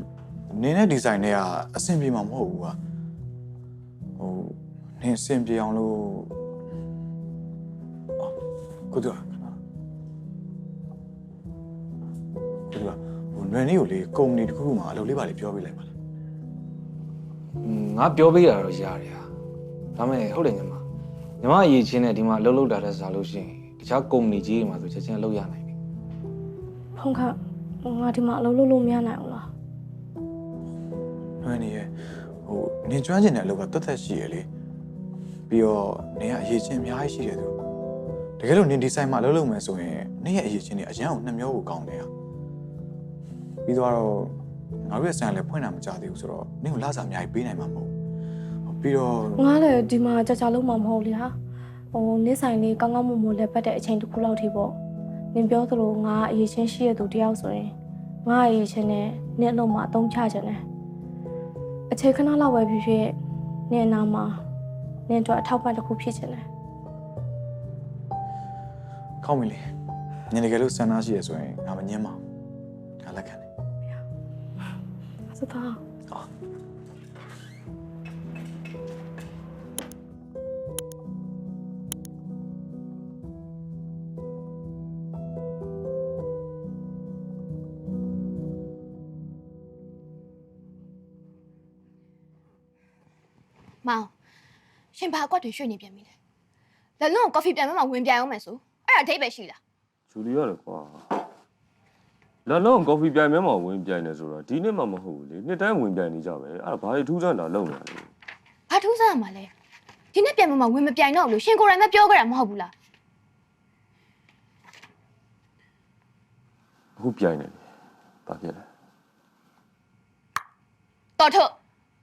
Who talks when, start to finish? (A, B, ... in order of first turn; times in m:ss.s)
0:00.5-0:02.8 A
0:04.2-0:06.3 A
0:08.9-0:09.6 A
0:12.7-0:15.9 A
0:17.6-0:19.2 B
0:20.0-0:20.8 B
0:21.4-0:25.7 B
0:27.0-0:29.5 C
0:31.4-0:31.9 A
0:32.4-0:34.4 A
0:35.5-0:37.5 A
0:38.4-0:42.1 A
0:43.6-0:44.3 A
0:44.8-0:47.9 A
0:48.7-0:49.5 A
0:49.4-0:51.3 C
0:51.9-0:54.7 C
0:55.3-0:57.7 C
0:58.2-1:00.6 C
1:01.9-1:03.1 C
1:03.7-1:04.4 C
1:05.1-1:06.4 C
1:09.2-1:09.6 A
1:10.3-1:12.2 A
1:13.0-1:13.4 A
1:15.3-1:15.8 C
1:33.8-1:34.1 D
1:34.9-1:36.1 D
1:37.0-1:39.6 D
1:40.1-1:41.0 E
1:42.4-1:48.1 E
1:48.7-1:49.5 D
1:50.1-1:52.7 D
1:57.0-1:57.6 E
1:58.2-1:58.6 E
2:01.2-2:01.5 D